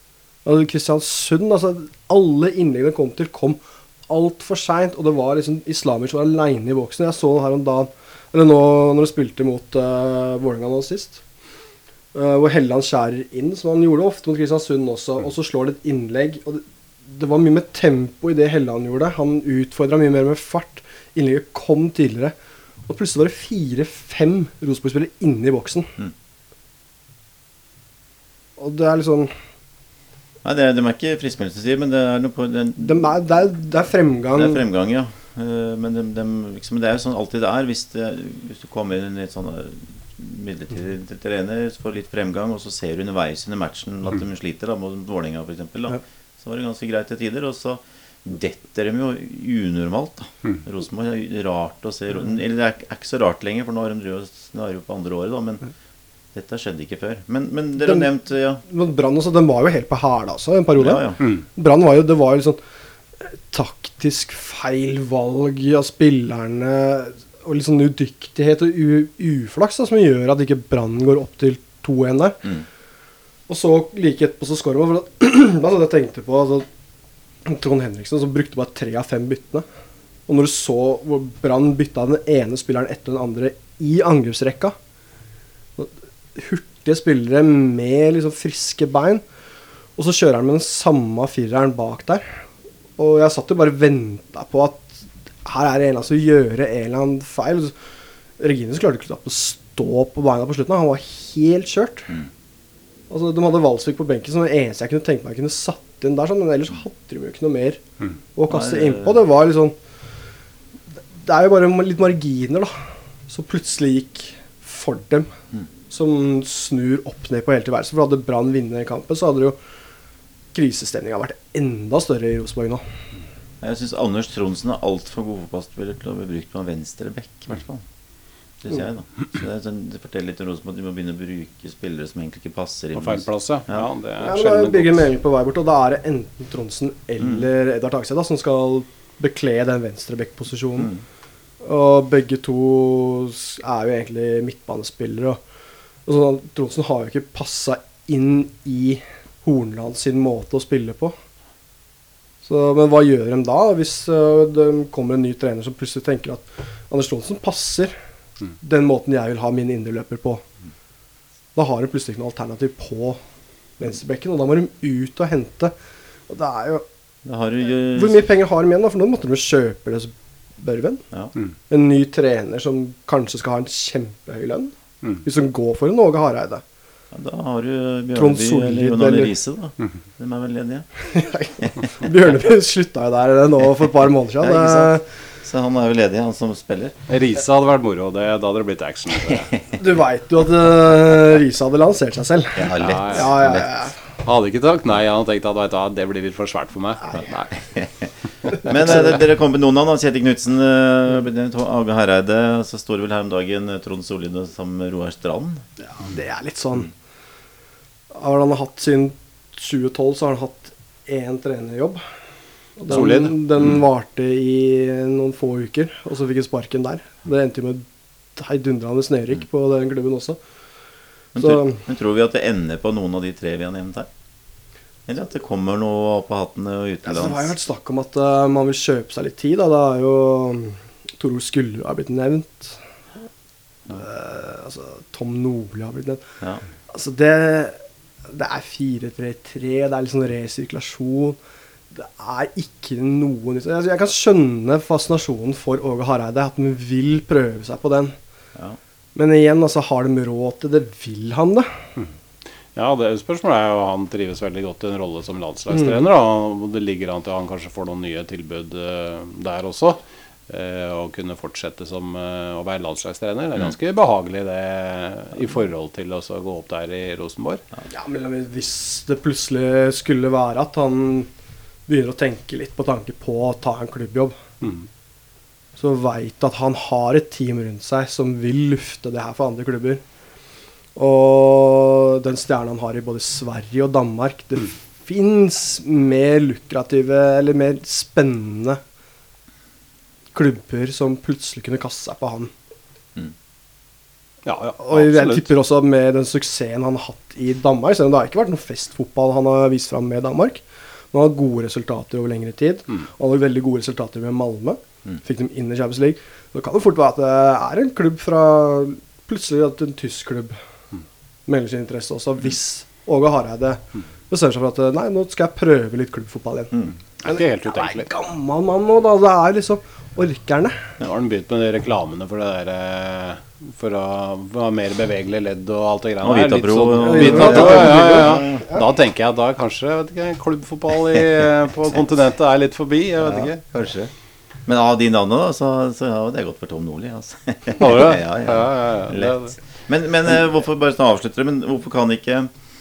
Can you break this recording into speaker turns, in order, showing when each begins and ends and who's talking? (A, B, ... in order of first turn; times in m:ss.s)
0:00.4-0:11.2 A
0:12.1-0:22.3 A
0:22.9-0:25.9 A
0:28.6-0:29.3 A
0:30.4-0:33.2 B
0:32.8-0:34.6 A
0:34.3-0:55.6 B
0:56.3-0:58.6 B
0:57.8-0:58.1 A
0:58.6-1:02.6 A
1:00.8-1:01.2 B
1:03.2-1:12.4 A
1:13.5-1:16.7 A
1:17.4-1:19.6 A
1:20.3-1:24.8 A
1:25.8-1:29.2 A
1:30.0-1:32.2 A
1:33.0-1:37.7 A
1:38.4-1:42.1 A
1:43.1-1:47.8 A
1:48.4-1:49.8 A
1:48.5-1:49.2 B
1:51.2-1:52.7 A
1:53.3-1:55.3 A
1:55.9-1:59.6 A
2:00.5-2:02.8 A
2:03.6-2:07.8 B
2:08.6-2:13.9 B
2:13.0-2:15.0 C
2:14.2-2:20.9 A
2:17.2-2:17.5 B
2:20.8-2:21.0 B
2:21.6-2:25.4 A
2:26.1-2:31.2 A
2:32.4-2:38.0 A
2:38.6-2:40.4 A
2:41.6-2:43.2 A
2:43.8-2:45.7 A
2:46.3-2:46.8 A
2:47.2-2:48.3 B
2:47.9-2:51.0 A
2:51.7-2:56.6 A
2:57.1-3:00.9 B
2:58.2-2:59.3 A
3:01.1-3:05.0 A
3:04.4-3:07.0 B
3:07.1-3:09.5 C
3:09.2-3:09.6 B
3:09.7-3:14.0 A
3:12.6-3:13.7 B
3:12.8-3:13.4 C
3:14.2-3:17.2 C
3:17.1-3:25.6 B
3:26.0-3:26.9 A
3:28.1-3:32.0 A
3:32.8-3:40.4 A
3:32.9-3:33.4 C
3:41.3-3:44.1 B
3:41.4-3:41.8 A
3:45.1-3:47.5 B
3:47.0-3:52.8 A
3:53.9-3:56.2 A
3:56.9-4:01.4 A
4:01.9-4:08.2 A
4:09.2-4:11.7 A
4:12.8-4:27.6 C
4:15.7-4:16.1 A
4:27.9-4:31.3 A
4:31.9-4:34.4 A
4:34.6-4:34.9 C
4:35.8-4:40.0 A
4:41.0-4:48.8 A
4:50.3-4:52.5 A
4:54.4-4:55.5 C
4:54.8-5:10.6 A
5:11.5-5:20.8 A
5:17.2-5:18.1 C
5:21.0-5:33.6 C
5:26.2-5:28.7 B
5:27.0-5:28.8 A
5:33.2-5:34.1 B
5:34.7-5:42.5 B
5:37.8-5:39.6 C